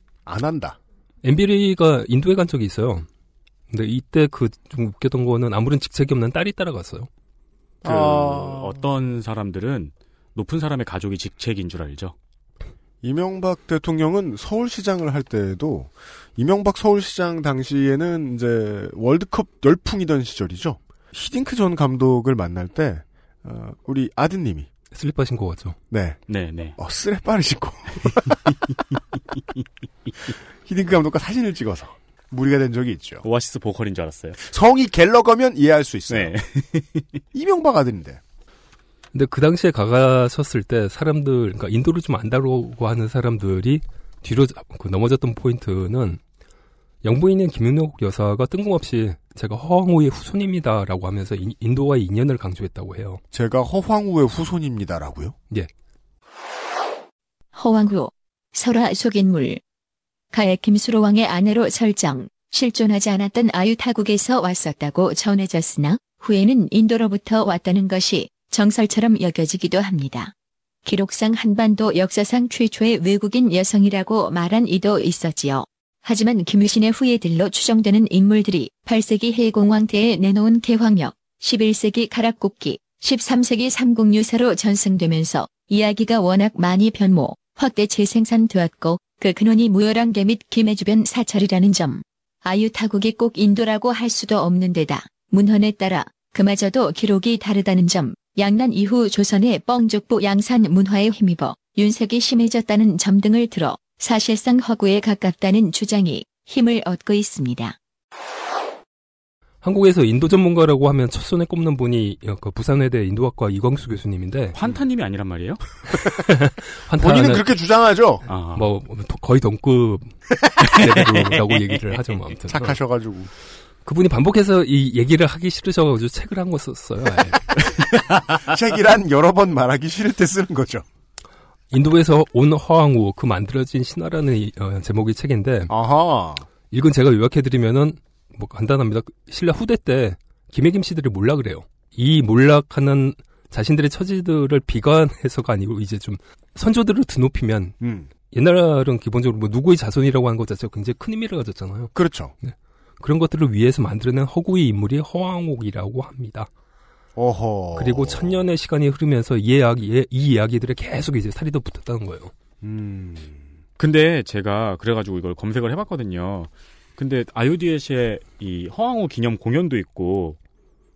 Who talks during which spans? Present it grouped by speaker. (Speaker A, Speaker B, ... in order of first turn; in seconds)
Speaker A: 0.2-0.8, 7.8-8.8, 13.0-24.7, 25.9-26.2, 26.8-28.5, 30.6-33.2, 34.4-36.3, 37.3-38.2, 53.3-55.4, 116.9-118.2, 122.5-123.3, 127.5-130.8, 135.7-136.5, 147.8-148.1, 151.9-152.3, 157.2-158.4, 162.6-163.4
Speaker B: 1.2-3.1, 3.7-7.1, 24.9-25.8, 39.1-46.2, 47.0-53.2, 109.6-114.5, 116.2-117.5, 118.5-122.8, 123.8-127.4, 131.7-135.7, 136.7-147.8, 148.3-156.5, 157.8-162.3
Speaker C: 7.8-12.1, 26.3-26.8, 33.2-34.4, 36.1-37.1, 114.5-115.6, 118.3-118.7, 163.8-170.4
Speaker D: 57.5-59.6, 60.3-70.3, 70.8-107.8